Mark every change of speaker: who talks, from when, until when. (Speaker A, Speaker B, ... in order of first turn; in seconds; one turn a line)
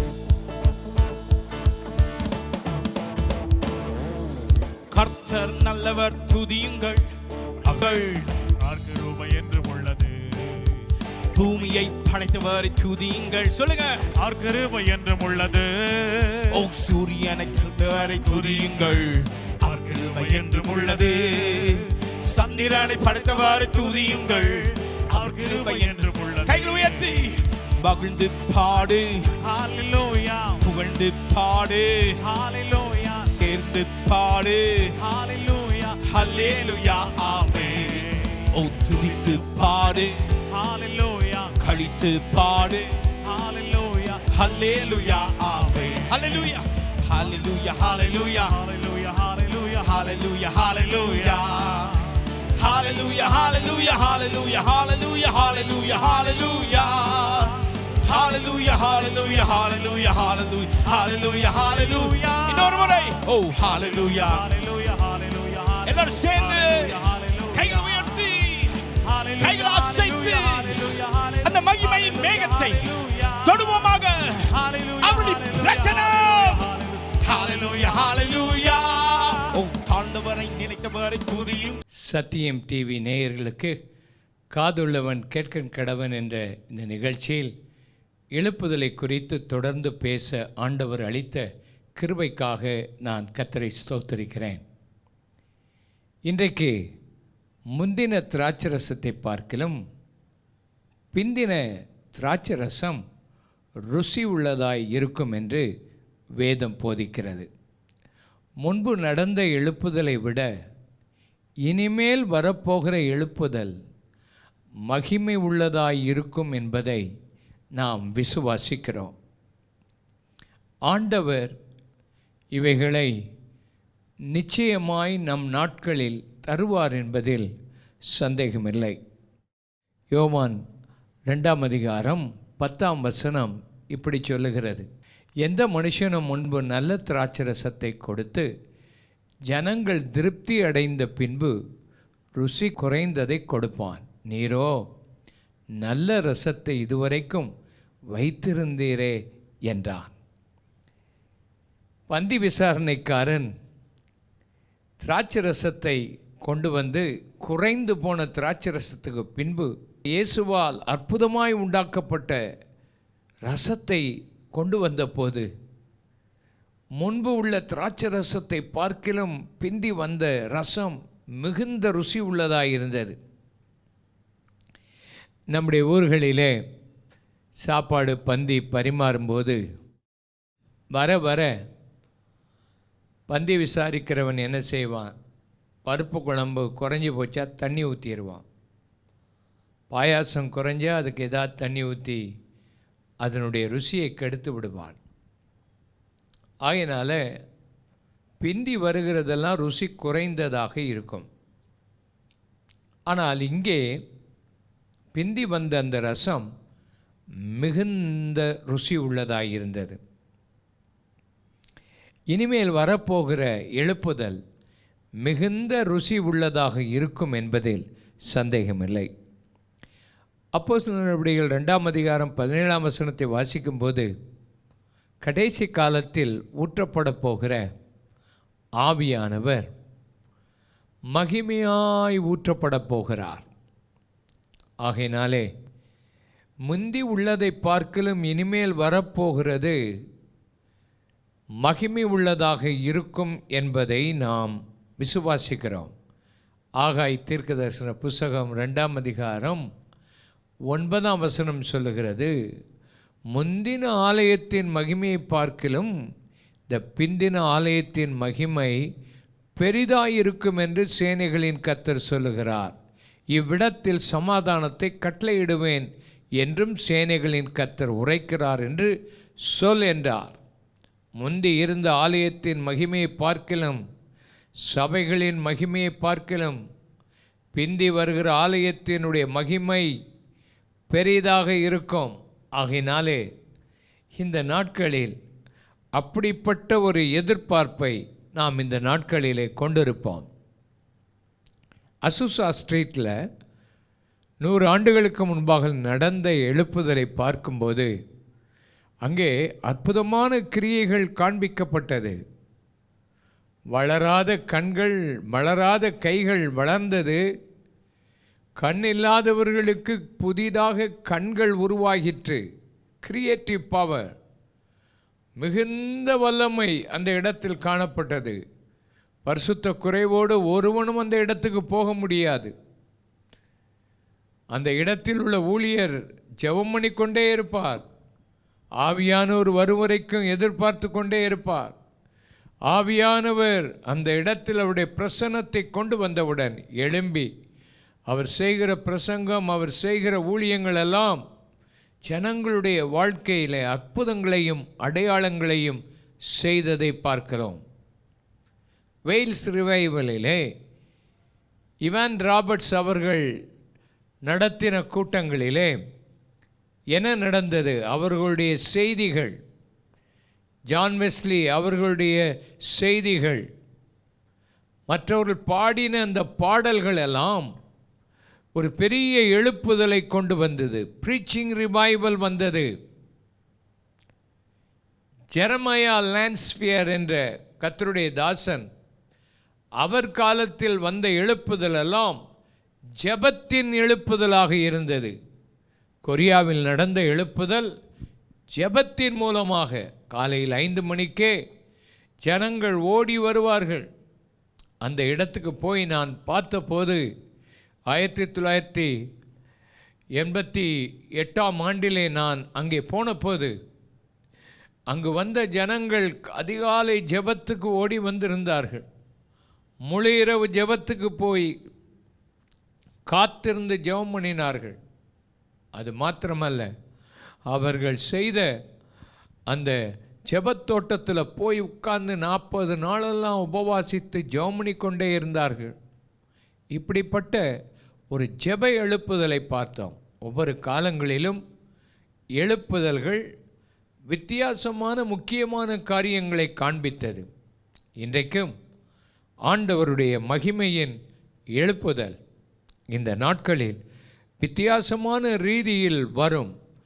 Speaker A: 4.9-7.1
Speaker A: 7.7-8.3
Speaker B: 8.6-10.9
Speaker A: 11.3-14.1
Speaker B: 14.2-16.6
Speaker A: 16.5-29.3
Speaker B: 18.2-18.9
Speaker B: 19.6-21.8
Speaker B: 24.0-24.4
Speaker B: 25.1-27.1
Speaker B: 29.4-30.6
Speaker A: 30.6-32.2
Speaker B: 32.2-33.3
Speaker A: 33.3-35.0
Speaker B: 35.0-36.0
Speaker A: 36.0-40.1
Speaker B: 37.4-38.5
Speaker B: 40.5-41.6
Speaker A: 41.6-42.9
Speaker B: 43.2-44.3
Speaker A: 44.3-48.5
Speaker B: 45.4-46.5
Speaker B: 48.5-49.9
Speaker A: 49.8-64.4
Speaker B: 51.0-51.4
Speaker B: 61.8-63.1
Speaker B: 64.2-68.2
Speaker A: 65.8-68.8
Speaker B: 69.0-73.9
Speaker A: 69.4-81.8
Speaker B: 74.5-78.1
Speaker C: 82.1-83.7
Speaker C: 84.5-87.5
Speaker C: 88.3-91.4
Speaker C: 92.0-94.6
Speaker C: 96.3-96.8
Speaker C: 97.8-99.8
Speaker C: 101.1-103.0
Speaker C: 103.9-105.7
Speaker C: 106.4-107.5
Speaker C: 108.6-110.5
Speaker C: 111.7-113.7
Speaker C: 114.9-117.0
Speaker C: 117.8-119.1
Speaker C: 120.9-121.5
Speaker C: 122.5-123.1
Speaker C: 124.3-127.5
Speaker C: 128.1-129.0
Speaker C: 130.1-130.6
Speaker C: 131.3-134.9
Speaker C: 135.4-138.5
Speaker C: 139.5-141.5
Speaker C: 142.4-144.8
Speaker C: 145.8-147.5
Speaker C: 148.1-149.2
Speaker C: 149.7-150.1
Speaker C: 152.1-153.5
Speaker C: 155.0-162.4
Speaker C: 163.5-164.1
Speaker C: 164.6-165.5
Speaker C: 167.0-173.2
Speaker C: 175.5-176.5
Speaker C: 177.6-179.6
Speaker C: 180.9-181.5
Speaker C: 183.3-185.1
Speaker C: 185.9-188.4
Speaker C: 189.9-192.2
Speaker C: 193.2-195.0
Speaker C: 196.7-197.2
Speaker C: 198.4-201.3
Speaker C: 203.1-203.8
Speaker C: 205.2-206.5
Speaker C: 207.6-210.0
Speaker C: 212.3-214.4
Speaker C: 215.2-219.1
Speaker C: 220.6-224.1
Speaker C: 225.2-227.6
Speaker C: 228.8-229.7
Speaker C: 231.1-233.5
Speaker C: 234.8-235.5
Speaker C: 236.7-239.8
Speaker C: 241.6-245.9
Speaker C: 246.8-249.6
Speaker C: 250.7-252.3
Speaker C: 253.3-255.9
Speaker C: 256.7-258.8
Speaker C: 259.6-262.8
Speaker C: 263.3-265.9
Speaker C: 266.4-268.9
Speaker C: 269.5-270.4
Speaker C: 271.2-273.8
Speaker C: 274.7-276.6
Speaker C: 277.5-279.9
Speaker C: 280.9-283.2
Speaker C: 284.2-285.2
Speaker C: 286.0-290.3
Speaker C: 292.1-293.1
Speaker C: 294.4-297.9
Speaker C: 299.1-302.2
Speaker C: 303.7-307.2
Speaker C: 308.6-312.4
Speaker C: 313.0-314.1
Speaker C: 315.4-318.4
Speaker C: 319.2-322.5
Speaker C: 324.5-327.8
Speaker C: 328.8-331.7
Speaker C: 332.7-337.3
Speaker C: 338.1-341.2
Speaker C: 342.1-345.8
Speaker C: 346.3-347.6
Speaker C: 349.1-350.4
Speaker C: 351.9-353.2
Speaker C: 354.3-355.8
Speaker C: 356.9-359.4
Speaker C: 360.7-363.4
Speaker C: 364.9-367.5
Speaker C: 368.6-372.7
Speaker C: 375.4-378.7
Speaker C: 379.8-382.2
Speaker C: 383.0-385.1
Speaker C: 386.1-387.7
Speaker C: 388.6-391.3
Speaker C: 392.2-393.9
Speaker C: 394.8-397.0
Speaker C: 397.9-398.9
Speaker C: 400.2-403.5
Speaker C: 404.9-408.9
Speaker C: 409.9-411.5
Speaker C: 413.1-414.8
Speaker C: 415.8-416.7
Speaker C: 417.5-418.5
Speaker C: 419.5-419.8
Speaker C: 420.3-425.7
Speaker C: 426.7-427.4
Speaker C: 428.1-431.4
Speaker C: 432.4-433.2
Speaker C: 434.1-437.3
Speaker C: 438.0-438.5
Speaker C: 439.5-440.9
Speaker C: 441.6-442.1
Speaker C: 442.9-443.8
Speaker C: 444.4-446.5